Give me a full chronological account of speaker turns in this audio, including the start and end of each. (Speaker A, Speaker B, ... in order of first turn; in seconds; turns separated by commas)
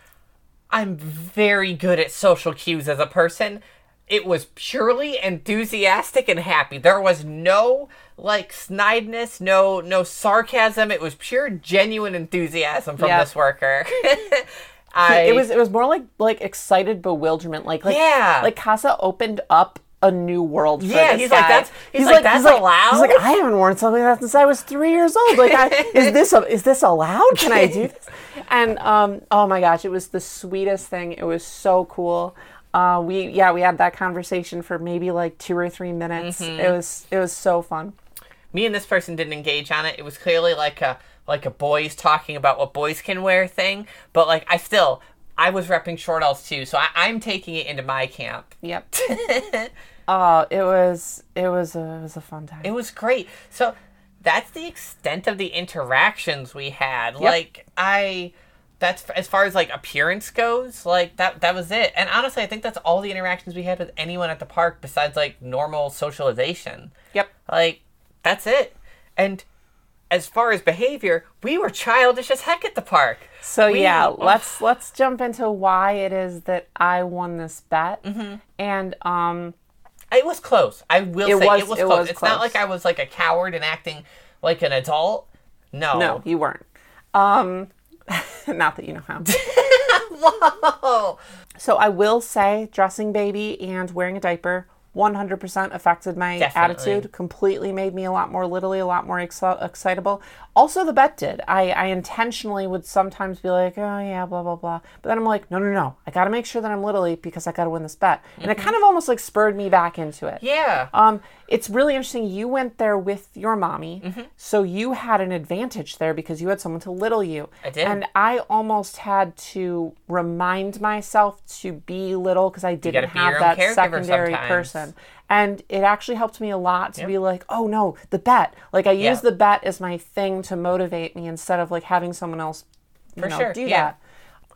Speaker A: 0.7-15.4, Speaker B: 13.0-13.3, Speaker B: 15.0-37.9, Speaker A: 17.8-18.5, Speaker A: 20.8-23.2, Speaker A: 25.3-26.1, Speaker A: 27.4-27.8, Speaker A: 36.2-36.8, Speaker A: 38.5-49.7, Speaker B: 48.6-48.9, Speaker B: 50.1-52.7, Speaker A: 52.6-66.9, Speaker A: 67.5-69.4, Speaker A: 70.1-74.5, Speaker B: 73.4-78.0, Speaker A: 78.0-78.4, Speaker B: 78.5-79.5, Speaker A: 80.1-86.2, Speaker B: 81.2-82.6, Speaker B: 85.9-89.3, Speaker A: 89.2-91.2, Speaker B: 91.6-133.9, Speaker A: 96.4-97.1, Speaker A: 108.4-108.7, Speaker A: 110.4-110.9, Speaker A: 114.0-114.3, Speaker A: 117.6-118.0, Speaker A: 122.8-124.8, Speaker A: 133.2-133.9